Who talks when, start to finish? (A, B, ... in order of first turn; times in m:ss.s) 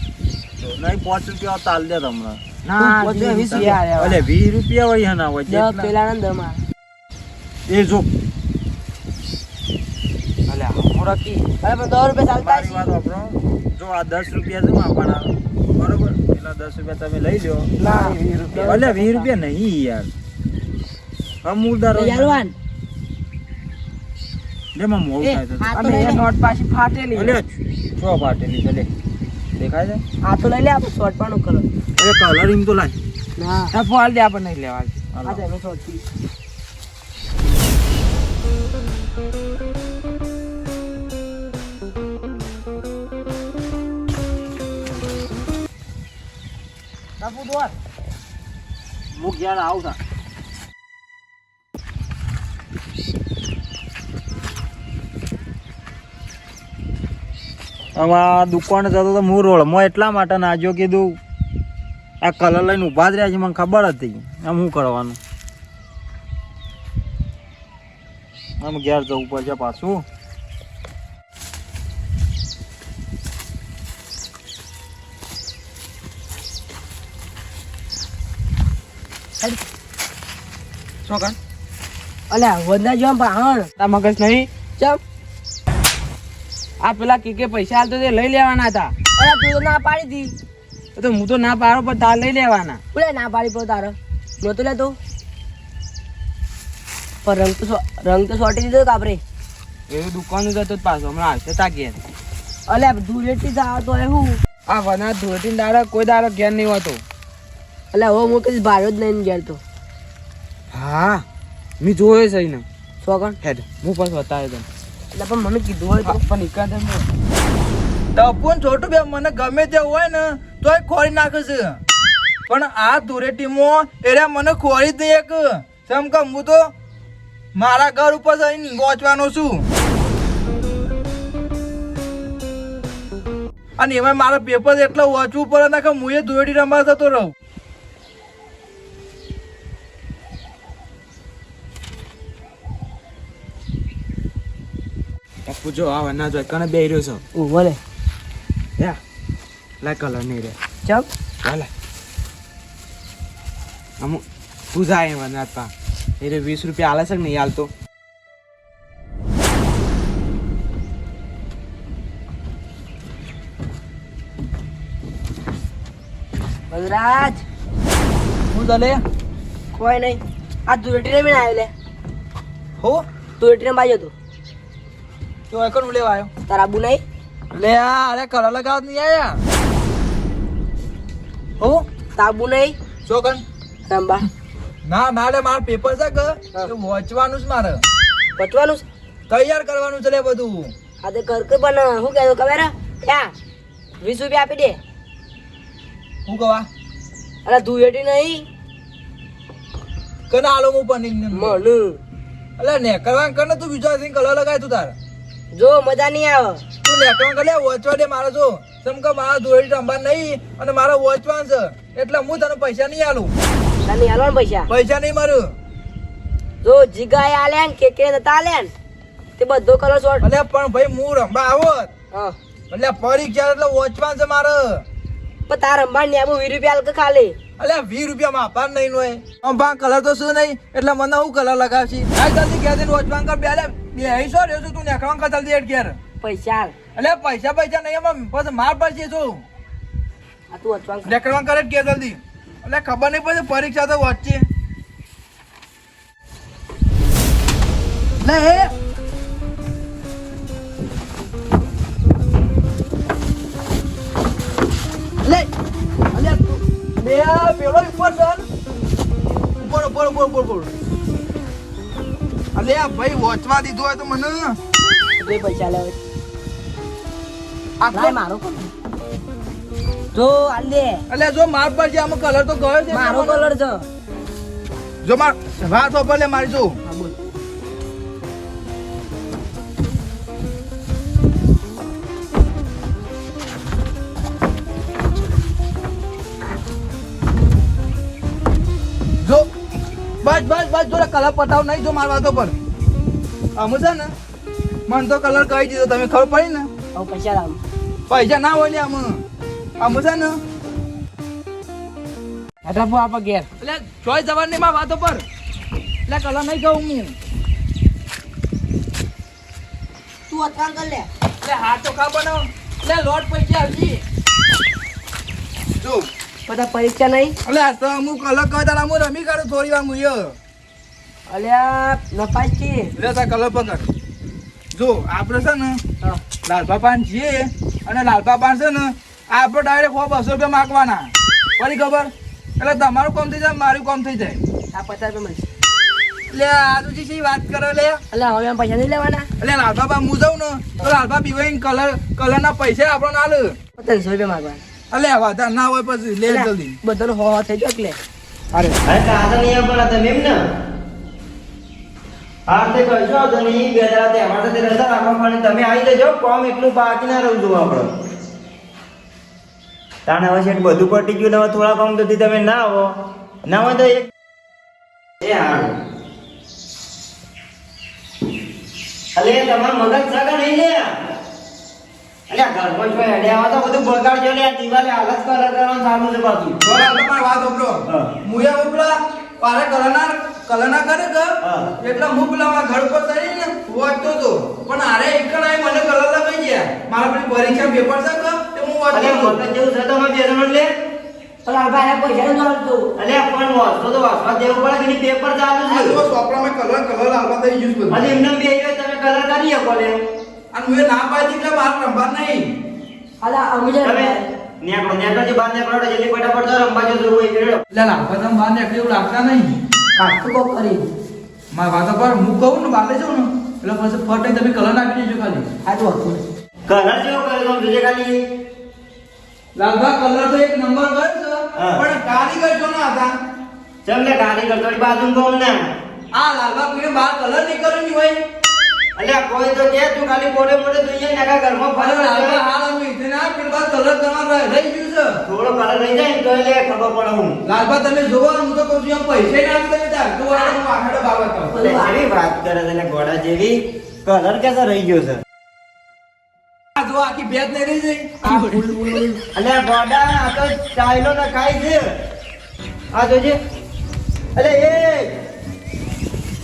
0:00.6-0:02.4 A
0:02.6-0:04.2 B
0:02.8-0:03.8 C
0:03.4-0:05.9 A
0:05.5-0:06.6 C
0:07.7-0:08.1 A
0:10.5-0:11.5 B
0:11.6-0:12.9 C
0:12.4-0:17.7 A
0:17.8-0:19.3 B
0:17.8-0:18.2 C
0:18.5-0:20.1 A
0:21.4-0:22.4 A
0:21.9-0:22.6 C
0:24.8-0:26.1 A
0:25.3-0:26.2 C
0:25.7-0:27.4 B
0:27.2-0:28.9 A
0:29.6-0:30.0 A
0:30.2-0:31.7 C
0:32.0-0:33.0 A
0:33.4-0:33.8 C
0:33.7-0:35.0 B
0:35.1-0:35.4 A
0:35.2-0:36.0 C
0:47.2-0:47.8 B
0:49.1-0:50.0 A
0:58.0-1:01.2 A
1:02.2-1:05.2 A
1:08.6-1:10.0 A
1:22.3-1:23.7 C
1:23.8-1:24.5 B
1:26.8-1:28.9 B
1:29.2-1:30.4 C
1:31.0-1:32.8 B
1:32.9-1:35.0 C
1:37.2-1:39.2 C
1:39.9-1:42.0 B
1:42.7-1:44.4 C
1:44.7-1:47.0 B
1:47.9-1:49.6 C
1:50.7-1:51.2 B
1:51.8-1:52.6 B
1:53.0-1:53.4 C
1:53.4-1:54.7 B
1:55.1-1:56.2 C
1:56.0-1:57.1 B
1:58.2-2:01.8 D
2:02.5-2:06.7 D
2:07.6-2:09.7 D
2:13.8-2:17.3 D
2:25.5-2:27.2 B
2:27.4-2:27.8 C
2:29.8-2:30.6 B
2:30.8-2:31.1 C
2:31.4-2:31.7 B
2:34.0-2:37.7 B
2:46.7-2:47.4 C
2:48.5-2:49.0 D
2:49.7-2:51.7 C
2:52.8-2:53.0 D
2:53.4-2:54.1 C
2:55.5-2:56.3 D
2:56.5-2:57.0 C
2:57.5-2:59.4 D
3:01.6-3:01.9 D
3:02.2-3:02.8 C
3:03.1-3:03.4 D
3:03.9-3:04.3 C
3:04.8-3:07.8 D
3:08.4-3:08.9 C
3:09.3-3:10.7 D
3:11.0-3:13.3 C
3:14.0-3:14.8 C
3:16.3-3:16.7 D
3:17.5-3:18.5 C
3:20.3-3:21.6 D
3:21.3-3:22.0 C
3:22.6-3:24.9 D
3:25.5-3:26.6 C
3:26.8-3:33.3 D
3:33.8-3:34.7 C
3:34.7-3:35.5 D
3:36.6-3:38.7 C
3:39.4-3:40.2 C
3:40.2-3:41.9 D
3:42.7-3:44.8 D
3:45.5-3:47.4 C
3:47.6-3:56.0 D
3:56.2-3:56.8 C
3:57.0-3:59.4 D
4:00.5-4:01.2 C
4:01.1-4:04.5 D
4:08.2-4:08.7 D
4:15.2-4:15.5 D
4:16.1-4:18.5 D
4:19.6-4:20.7 D
4:22.6-4:24.6 D
4:25.2-4:26.0 C
4:27.8-4:28.2 D
4:27.9-4:28.7 C
4:30.1-4:31.0 C
4:31.1-4:33.4 D
4:32.9-4:33.9 C
4:35.0-4:36.8 D
4:36.8-4:37.2 C
4:49.2-4:49.5 D
4:50.2-4:52.6 D
4:53.6-4:54.1 D
4:54.9-4:56.7 D
4:56.9-4:57.6 C
4:58.1-4:59.2 D
4:59.8-5:00.4 D
5:02.6-5:03.5 B
5:03.6-5:05.2 D
5:06.1-5:07.2 D
5:10.3-5:11.1 C
5:11.4-5:14.0 D
5:15.8-5:16.1 D
5:16.5-5:17.4 C
5:17.4-5:20.4 D
5:21.3-5:22.9 C
5:23.0-5:23.9 D
5:24.7-5:25.8 D
5:26.4-5:34.4 D
5:34.7-5:35.5 C
5:36.3-5:38.0 D
5:38.1-5:39.3 C
5:39.4-5:43.6 D
5:43.8-5:44.6 C
5:44.9-5:46.8 D
5:46.3-5:48.0 C
5:48.9-5:50.4 E
5:52.5-5:57.9 E
6:00.1-6:02.9 E
6:03.5-6:04.1 E
6:05.2-6:05.8 E
6:09.2-6:10.9 E
6:12.3-6:16.6 E
6:16.6-6:29.4 D
6:21.4-6:21.7 E
6:28.9-6:30.7 E
6:29.1-6:29.4 A
6:31.4-6:32.9 C
6:33.0-6:36.0 E
6:35.6-6:38.2 D
6:37.9-6:40.0 E
6:40.5-6:42.5 D
6:43.2-6:44.2 C
6:43.8-6:47.6 E
6:47.7-6:49.6 D
6:50.0-6:50.9 C
6:51.5-6:55.5 D
6:55.6-6:56.2 C
6:56.7-6:58.2 E
6:59.6-7:03.2 D
7:03.8-7:05.7 E
7:06.1-7:08.2 D
7:09.0-7:12.4 E
7:11.7-7:15.2 D
7:15.3-7:17.4 E
7:17.5-7:21.7 D
7:21.5-7:22.0 C
7:21.5-7:25.2 E
7:26.8-7:28.6 D
7:28.2-7:29.2 C
7:29.4-7:31.8 E
7:32.9-7:33.4 E
7:34.4-7:35.1 E